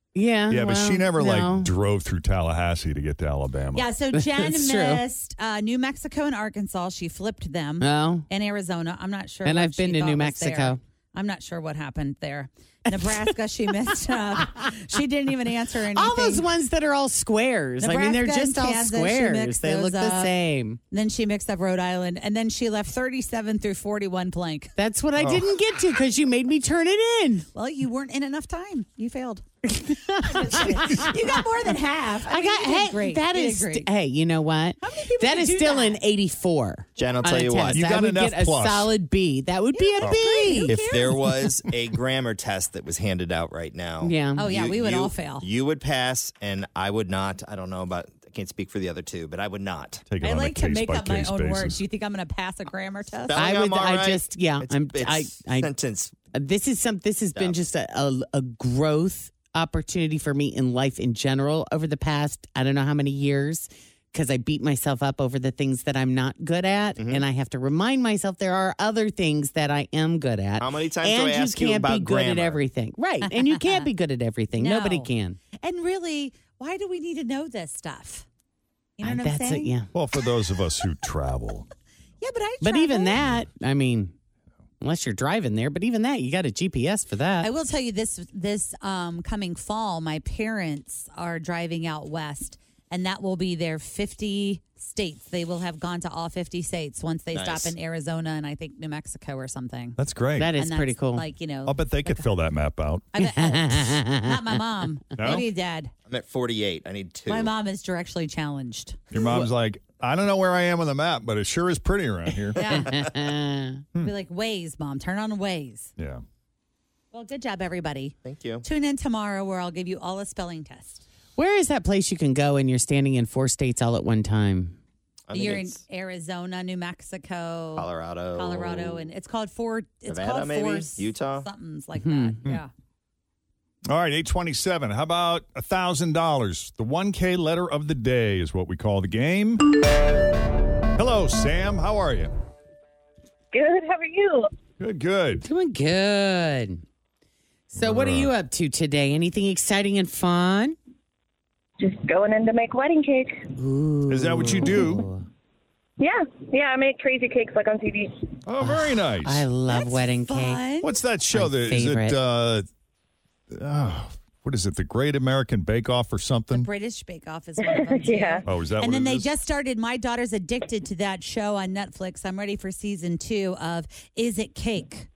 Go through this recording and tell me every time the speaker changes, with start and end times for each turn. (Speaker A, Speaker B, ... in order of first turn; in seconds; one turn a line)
Speaker A: 0.1-1.7
Speaker B: 0.5-3.9
Speaker C: 3.7-16.5
Speaker A: 4.1-5.0
Speaker A: 7.8-8.2
Speaker A: 9.4-10.8
Speaker A: 12.9-13.1
Speaker A: 14.4-14.8
Speaker A: 15.9-20.8
Speaker C: 17.8-20.3
Speaker C: 20.9-24.7
Speaker A: 24.8-27.4
Speaker B: 25.2-25.5
Speaker C: 27.5-29.4
Speaker A: 29.7-31.4
Speaker C: 30.1-33.9
Speaker A: 32.2-40.8
Speaker C: 34.8-36.0
Speaker D: 37.0-37.9
Speaker B: 37.7-38.9
Speaker C: 39.7-41.5
Speaker D: 40.7-50.0
Speaker A: 44.0-44.5
Speaker C: 44.4-45.4
Speaker B: 50.1-51.8
Speaker C: 50.2-53.4
Speaker D: 53.3-56.2
Speaker A: 53.3-55.7
Speaker A: 56.3-75.4
Speaker D: 67.0-67.2
Speaker D: 70.6-72.6
Speaker C: 73.5-73.8
Speaker C: 74.5-78.2
Speaker C: 79.0-79.7
Speaker A: 79.0-79.9
Speaker B: 79.9-81.7
Speaker C: 82.2-83.2
Speaker A: 82.6-84.1
Speaker A: 84.8-87.5
Speaker C: 87.4-100.0
Speaker D: 97.3-97.7
Speaker B: 100.0-100.5
Speaker A: 100.4-101.2
Speaker C: 100.6-102.2
Speaker B: 101.6-103.1
Speaker C: 103.1-105.9
Speaker A: 103.2-104.6
Speaker B: 105.2-105.5
Speaker D: 106.1-107.5
Speaker C: 107.3-109.0
Speaker B: 109.1-112.6
Speaker A: 109.2-109.5
Speaker A: 112.5-113.8
Speaker C: 112.5-112.9
Speaker C: 114.0-115.9
Speaker B: 116.0-116.2
Speaker C: 117.1-121.0
Speaker D: 118.2-118.6
Speaker A: 121.3-124.8
Speaker D: 125.3-125.8
Speaker C: 125.3-132.7
Speaker D: 127.8-129.0
Speaker D: 130.1-131.5
Speaker A: 132.0-132.4
Speaker B: 133.8-139.6
Speaker B: 141.0-142.3
Speaker E: 143.5-144.5
Speaker B: 144.8-145.5
Speaker A: 145.4-146.8
Speaker A: 147.7-150.8
Speaker B: 147.8-148.3
Speaker E: 151.8-153.4
Speaker A: 153.6-155.2
Speaker B: 154.1-155.1
Speaker E: 156.0-158.2
Speaker B: 158.4-159.5
Speaker A: 158.6-160.7
Speaker C: 159.7-160.9
Speaker B: 160.8-162.7
Speaker A: 161.3-162.2
Speaker B: 163.5-166.7
Speaker C: 166.5-175.1
Speaker E: 167.6-168.4
Speaker B: 168.4-169.3